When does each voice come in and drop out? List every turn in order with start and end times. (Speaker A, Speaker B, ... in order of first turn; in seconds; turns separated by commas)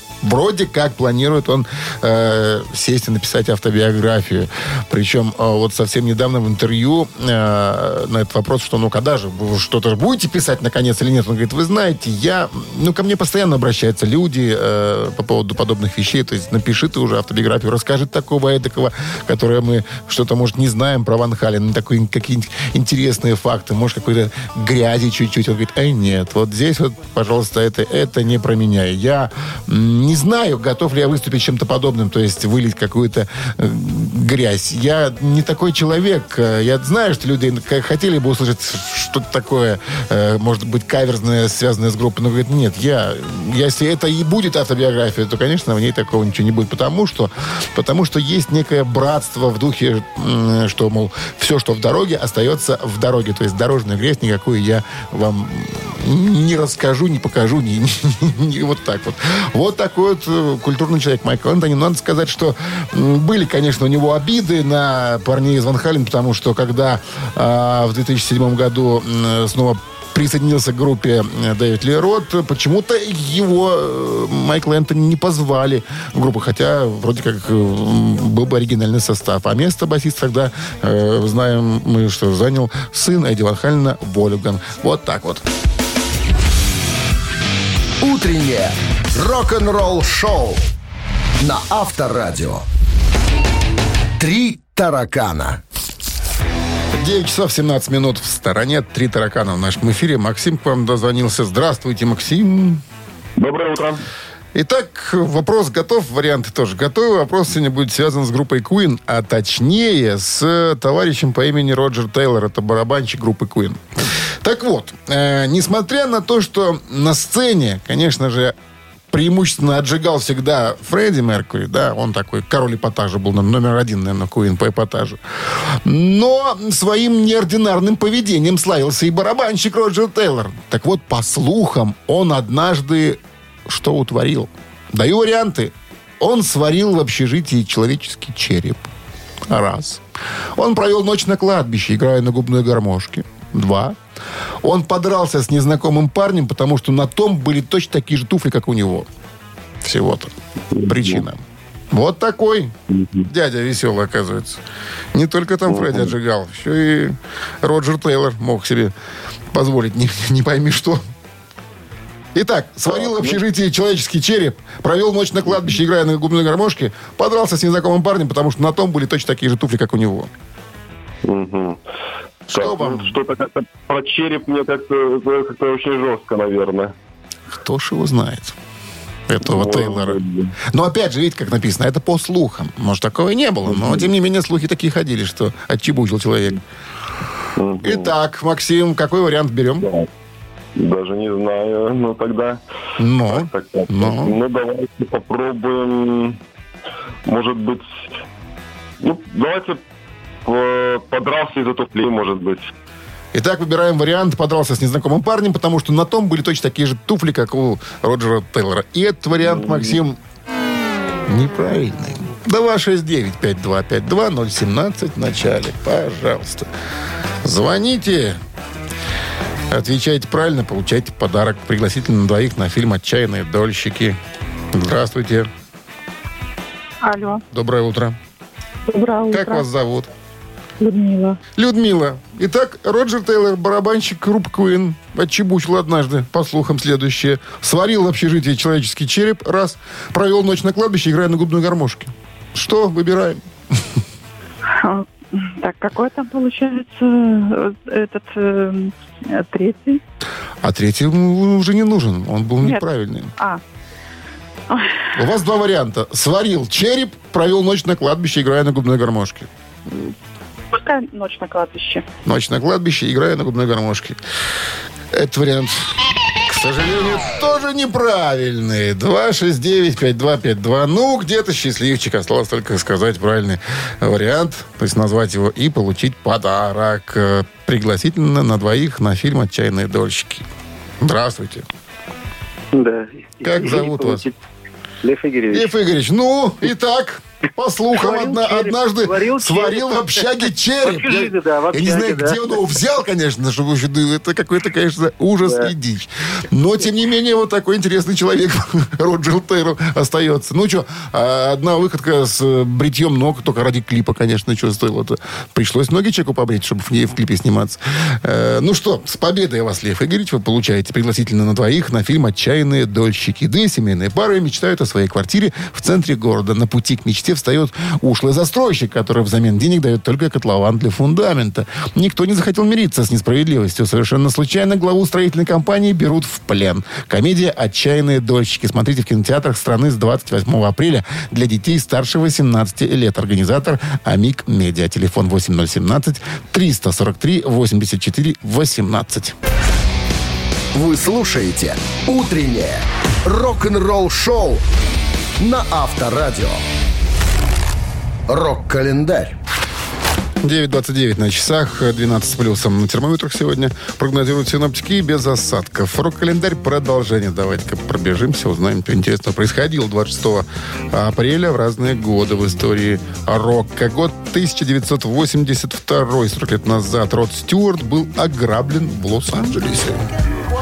Speaker A: 0.2-85.5, Speaker B: 88.0-90.7, Speaker B: 91.4-92.7, Speaker B: 94.2-95.6, Speaker A: 96.9-102.8, Speaker C: 103.4-104.0, Speaker A: 104.5-118.5, Speaker A: 119.1-138.9, Speaker A: 139.5-140.0, Speaker A: 140.6-144.0, Speaker A: 144.6-149.1, Speaker A: 149.8-151.4, Speaker C: 150.7-151.2, Speaker A: 151.9-152.7, Speaker C: 152.9-153.3, Speaker A: 153.3-154.6, Speaker A: 155.1-158.9, Speaker C: 155.7-156.1, Speaker A: 159.5-161.0, Speaker A: 162.3-170.3, Speaker C: 163.0-163.3, Speaker C: 171.2-171.8, Speaker A: 172.5-173.1, Speaker C: 172.5-176.9, Speaker A: 177.6-178.6, Speaker A: 179.3-186.6, Speaker C: 179.4-180.5, Speaker C: 183.7-184.1, Speaker C: 187.6-188.1, Speaker A: 187.8-189.9, Speaker C: 189.8-190.1, Speaker C: 190.8-192.6, Speaker A: 193.0-194.4, Speaker C: 193.2-196.4, Speaker C: 197.2-197.8, Speaker C: 199.0-199.8, Speaker C: 200.4-202.6, Speaker A: 203.3-210.2, Speaker C: 209.4-210.0, Speaker A: 211.2-216.7, Speaker A: 217.4-218.4, Speaker A: 219.7-224.2, Speaker A: 224.7-225.5, Speaker D: 227.0-227.4, Speaker A: 227.5-228.2, Speaker D: 228.9-229.7, Speaker A: 229.3-230.1, Speaker D: 230.8-231.4, Speaker A: 231.5-244.0, Speaker D: 244.7-250.0, Speaker A: 250.6-253.3, Speaker D: 254.7-255.1, Speaker A: 255.1-259.5, Speaker D: 260.7-262.0, Speaker A: 262.2-264.2, Speaker A: 265.1-280.5, Speaker A: 281.0-281.6, Speaker E: 282.7-284.4, Speaker A: 283.4-284.2, Speaker E: 285.0-285.7, Speaker A: 285.5-339.4, Speaker E: 287.9-289.9, Speaker E: 290.8-292.4, Speaker E: 295.4-295.7, Speaker B: 340.7-344.6, Speaker B: 345.4-346.6, Speaker B: 348.3-349.4, Speaker A: 350.4-370.0